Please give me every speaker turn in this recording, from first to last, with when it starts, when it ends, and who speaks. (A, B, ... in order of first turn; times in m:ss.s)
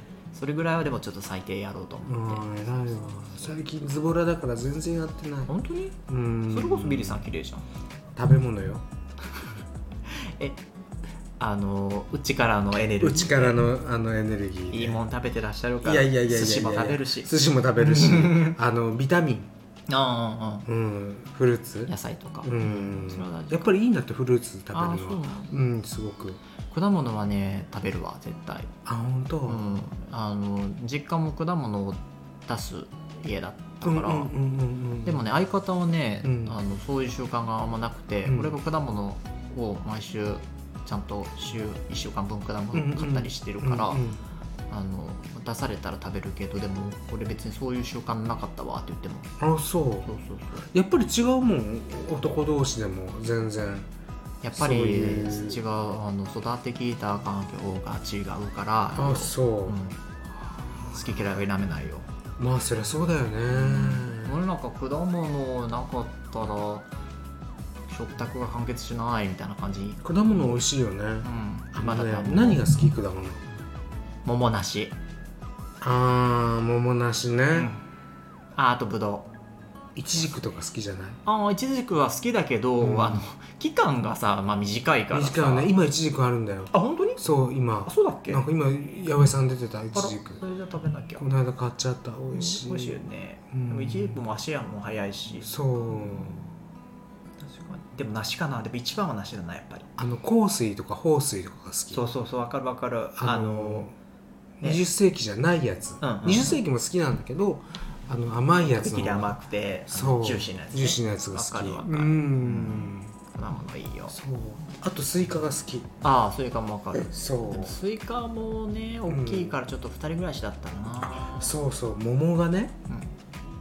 0:00.3-0:03.5 A
0:02.0-0:05.5 B
0:05.5-0:07.6 A
0:06.1-0:07.2 B
0:08.2-0:08.8 B
0:10.2-0:10.6 A
0:11.4-0:13.6 A
0:13.0-0:15.0 B
0:14.7-0:18.6 A
0:15.8-0:19.5 B
0:19.9-0:20.7 A
0:20.7-0:21.9 B
0:21.9-0:23.7 A
0:22.4-0:26.4 B
0:24.7-0:25.5 A
0:26.7-0:28.7 A
0:28.8-0:29.6 B
0:29.4-0:34.3 A
0:33.8-0:35.2 B
0:35.0-0:44.0 A
0:36.2-0:36.6 B
0:38.2-0:38.5 B
0:42.7-0:44.2 B
0:44.7-0:49.3 A
0:49.4-0:50.1 B
0:50.0-0:50.7 A
0:50.7-0:53.9 B
0:54.4-1:00.0 A
0:54.5-0:55.6 B
0:59.0-0:59.8 B
1:00.9-1:02.1 A
1:02.4-1:04.3 B
1:03.5-1:06.8 A
1:07.9-1:10.0 A
1:10.0-1:13.4 B
1:11.2-1:12.6 A
1:14.2-1:14.9 A
1:15.8-1:17.7 B
1:17.5-1:17.8 A
1:18.6-1:19.3 A
1:19.9-1:21.2 B
1:21.2-1:25.7 A
1:22.8-1:23.2 B
1:25.1-1:30.4 B
1:26.7-1:27.2 A
1:27.8-1:28.4 A
1:29.9-1:31.2 A
1:31.2-1:33.0 B
1:32.3-1:35.5 A
1:33.5-1:34.2 B
1:35.4-1:36.5 B
1:37.4-1:39.9 A
1:40.0-1:42.0 B
1:41.9-1:43.9 A
1:43.2-1:43.9 B
1:44.6-1:49.3 B
1:46.0-1:46.6 A
1:48.6-1:54.1 A
1:49.9-1:53.1 B
1:54.1-1:55.9 B
1:56.0-2:01.4 A
1:56.9-1:57.8 B
1:59.1-1:59.6 B
2:01.0-2:02.7 B